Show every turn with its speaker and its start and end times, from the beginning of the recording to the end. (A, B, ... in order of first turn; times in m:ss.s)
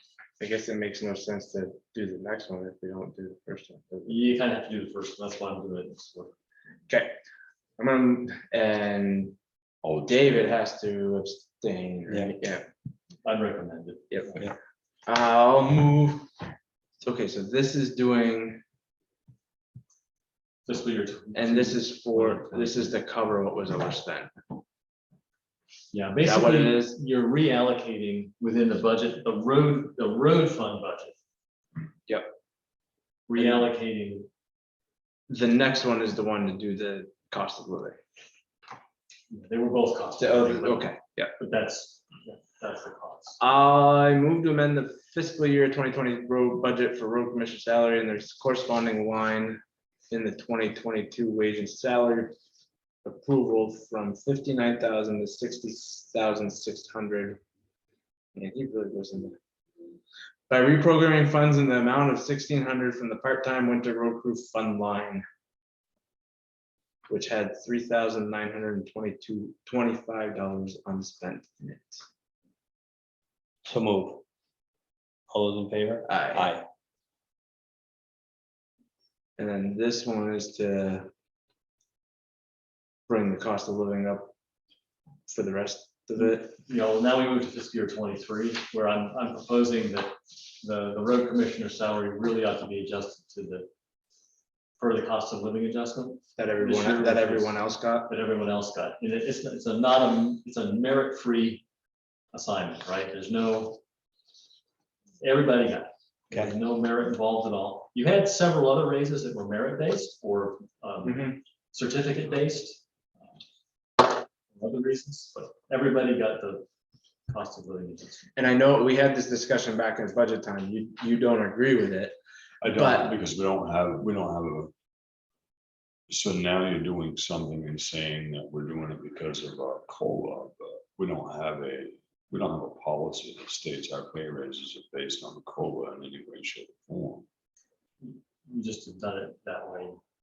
0:00.4-0:04.1 A
0:04.0-0:06.3 B
0:06.9-0:07.2 A
0:07.8-0:09.4 A
0:09.8-0:10.6 C
0:10.1-0:12.7 A
0:13.2-0:14.5 B
0:15.1-0:16.3 A
0:17.0-0:18.6 A
0:20.7-0:23.0 B
0:21.3-0:24.3 A
0:25.9-0:31.2 B
0:26.2-0:26.9 A
0:33.3-0:34.3 B
0:35.3-0:38.0 A
0:39.3-0:43.4 B
0:40.2-0:41.3 A
0:43.4-0:52.3 A
0:53.0-0:57.4 A
0:58.4-0:59.4 A
1:00.5-1:05.2 A
1:07.1-1:12.0 A
1:13.6-1:14.2 D
1:15.3-1:16.7 D
1:16.1-1:16.5 A
1:19.4-1:21.1 A
1:23.1-1:24.3 A
1:25.3-1:26.5 A
1:26.2-1:33.7 B
1:34.8-1:41.6 B
1:36.4-1:38.1 A
1:42.3-1:43.8 B
1:45.2-1:52.8 B
1:51.1-1:51.4 A
1:54.0-1:56.7 B
1:57.3-1:58.3 B
1:58.4-2:02.2 A
2:02.6-2:04.7 C
2:02.7-2:03.1 A
2:06.1-2:17.2 C
2:18.0-2:20.0 B